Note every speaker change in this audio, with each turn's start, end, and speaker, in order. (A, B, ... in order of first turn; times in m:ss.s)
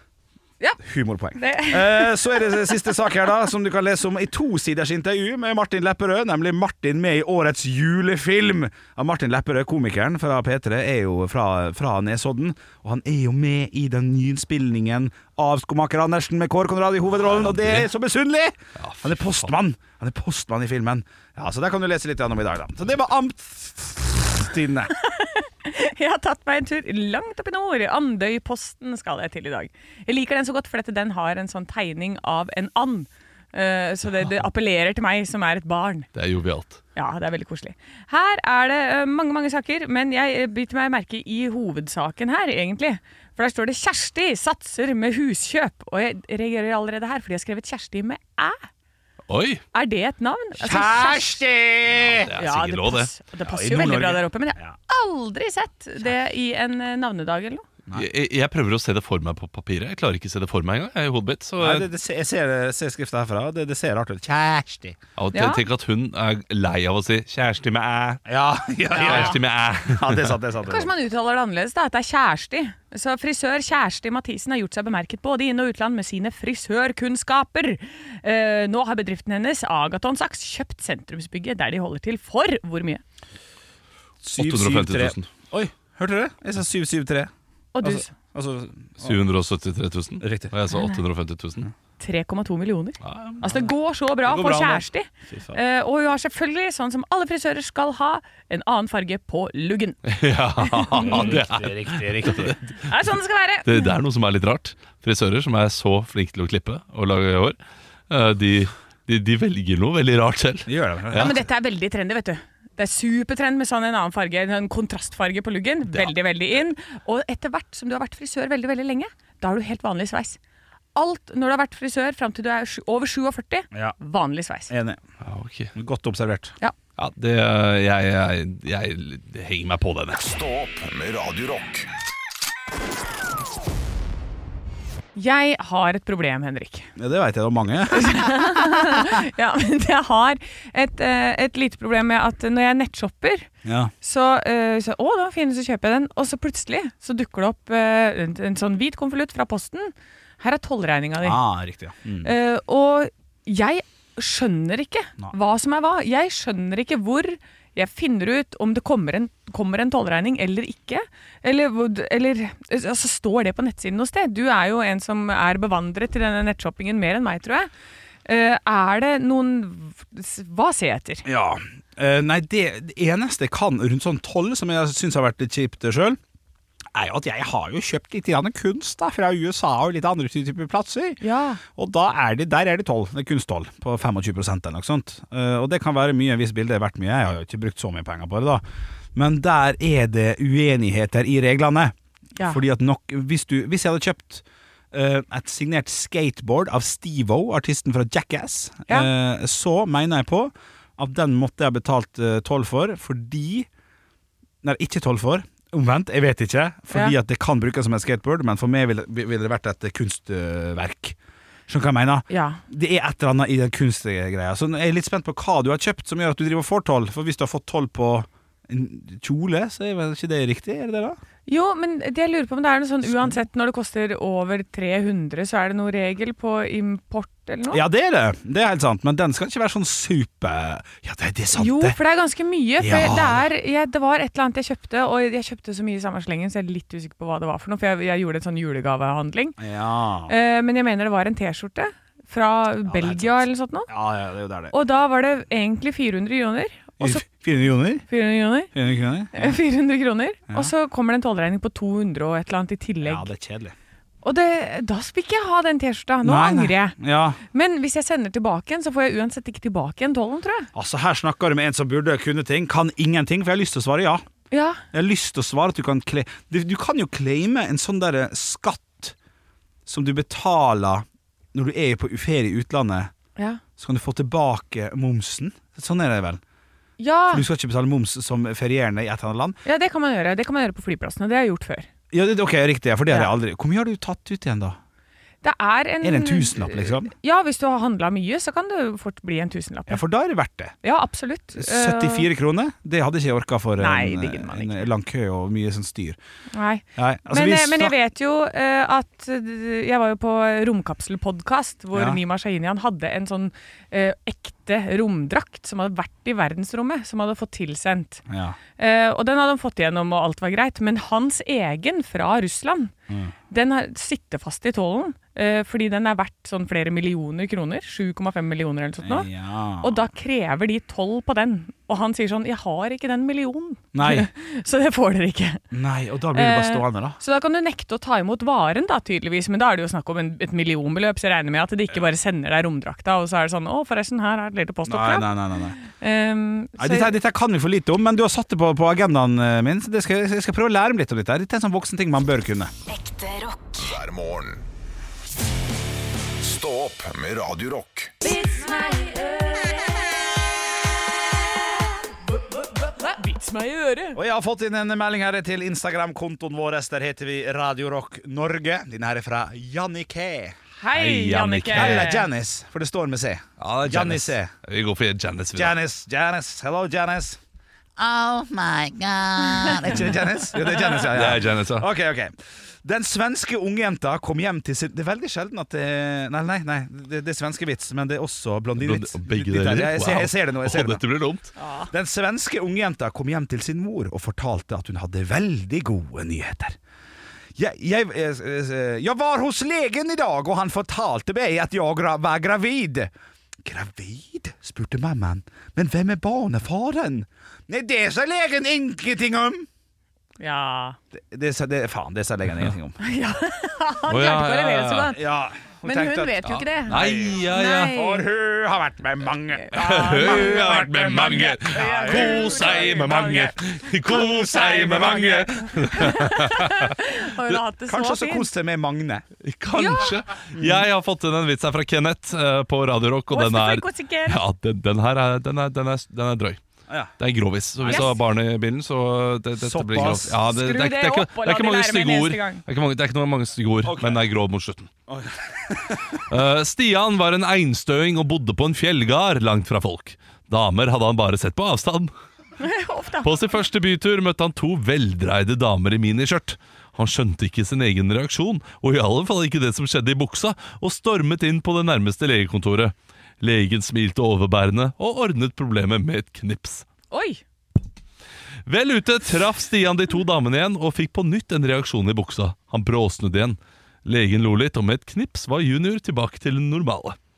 0:00.8-0:24.9 A
0:01.3-0:02.7 B
0:17.2-0:17.9 C
0:18.8-0:19.5 C
0:24.9-0:36.1 B
0:36.1-0:36.8 C
0:36.9-0:48.6 B
0:49.3-0:49.6 C
0:49.7-0:51.4 B
0:50.6-0:52.3 A
0:52.0-0:53.1 C
0:52.3-0:57.6 B
0:53.4-0:54.8 A
0:57.9-1:01.9 C
1:01.6-1:05.0 A
1:05.2-1:08.2 C
1:05.3-1:05.6 B
1:08.2-1:10.9 A
1:08.9-1:09.4 B
1:09.0-1:10.4 C
1:10.6-1:23.0 B
1:24.2-1:29.2 A
1:24.4-1:25.3 C
1:27.7-1:28.1 B
1:29.0-1:31.7 C
1:30.2-1:30.5 A
1:30.7-1:31.0 B
1:32.0-1:41.4 B
1:33.0-1:33.6 C
1:34.2-1:34.8 C
1:35.3-1:35.6 A
1:40.1-1:42.9 C
1:41.0-1:42.6 A
1:42.9-1:43.9 B
1:43.6-1:47.6 C
1:48.1-1:51.3 C
1:50.6-1:51.5 A
1:51.1-2:00.4 B
2:00.9-2:04.7 B
2:04.7-2:05.0 A
2:05.2-2:05.7 C
2:05.7-2:06.5 A
2:07.0-2:10.2 C
2:10.2-2:11.9 D
2:15.1-2:16.9 B
2:17.0-2:19.0 A
2:17.9-2:23.5 B
2:23.6-2:23.9 A
2:24.0-2:31.4 B
2:31.2-2:32.3 A
2:32.2-2:47.7 B
2:48.2-2:51.2 B
2:51.2-2:56.2 A
2:56.9-3:08.6 A
3:01.2-3:01.6 B
3:09.1-3:23.7 A
3:24.6-3:31.2 A
3:31.7-3:41.2 A
3:32.3-3:32.6 B
3:41.5-3:47.8 B
3:43.1-3:43.3 A
3:47.7-3:52.0 A
3:51.5-3:59.6 B
3:52.8-3:53.5 A
3:59.6-4:00.3 A
4:00.3-4:03.9 B
4:02.8-4:04.7 A
4:04.7-4:07.2 B
4:07.0-4:08.0 A
4:08.1-4:08.7 B
4:08.7-4:09.6 A
4:09.3-4:13.3 B
4:13.0-4:13.7 A
4:14.2-4:17.0 B
4:16.2-4:17.4 A
4:17.5-4:20.7 B
4:20.7-4:24.2 A
4:24.5-4:24.8 B
4:24.9-4:29.1 A
4:29.8-4:33.1 A
4:33.4-4:33.6 B
4:33.8-4:36.4 A
4:37.0-4:37.4 B
4:37.3-4:39.6 A
4:39.6-4:41.9 B
4:42.1-4:44.8 A
4:45.4-4:50.0 B
4:46.0-4:47.1 A
4:49.9-4:50.7 A
4:50.8-4:52.3 B
4:51.6-4:56.2 A
4:53.8-4:54.9 B
4:56.5-5:08.2 B
4:57.0-4:57.9 A
5:01.9-5:02.2 A
5:08.3-5:08.6 A
5:08.8-5:12.9 B
5:13.1-5:13.3 A
5:13.5-5:19.3 B
5:19.0-5:20.0 A
5:19.8-5:25.6 B
5:23.9-5:24.3 A
5:25.7-5:27.2 A
5:26.3-5:37.2 B
5:34.8-5:35.8 A
5:36.8-5:42.7 A
5:42.9-5:44.6 D
5:46.4-5:48.1 D
5:48.2-5:50.0 B
5:52.5-5:54.2 B
5:54.1-6:00.6 A
6:00.8-6:02.3 B
6:00.9-6:02.1 C
6:01.7-6:04.5 A
6:03.6-6:05.7 C
6:05.5-6:07.4 A
6:08.0-6:21.0 A
6:11.0-6:11.9 C
6:18.8-6:21.5 C
6:21.6-6:21.9 B
6:21.9-6:26.8 A
6:27.6-6:33.1 A
6:33.6-6:39.7 A
6:40.4-6:41.0 B
6:41.1-6:43.0 A
6:43.0-6:45.2 B
6:44.1-6:45.1 C
6:45.1-6:53.3 A
6:45.8-6:48.2 B
6:46.9-6:48.0 C
6:49.6-6:58.5 B
6:49.7-6:56.9 C
6:54.1-6:55.5 A
6:57.9-6:59.2 A
6:59.4-7:06.6 C
6:59.7-7:00.1 B
7:00.5-7:00.8 A
7:03.3-7:04.4 B
7:07.2-7:14.9 C
7:07.8-7:08.1 A
7:07.8-7:08.1 B
7:09.6-7:10.4 A
7:10.4-7:12.6 B
7:13.8-7:14.2 A
7:15.1-7:16.2 A
7:16.3-7:22.1 C
7:22.6-7:23.5 B
7:23.2-7:36.8 C
7:37.1-7:37.4 B
7:38.6-7:47.2 C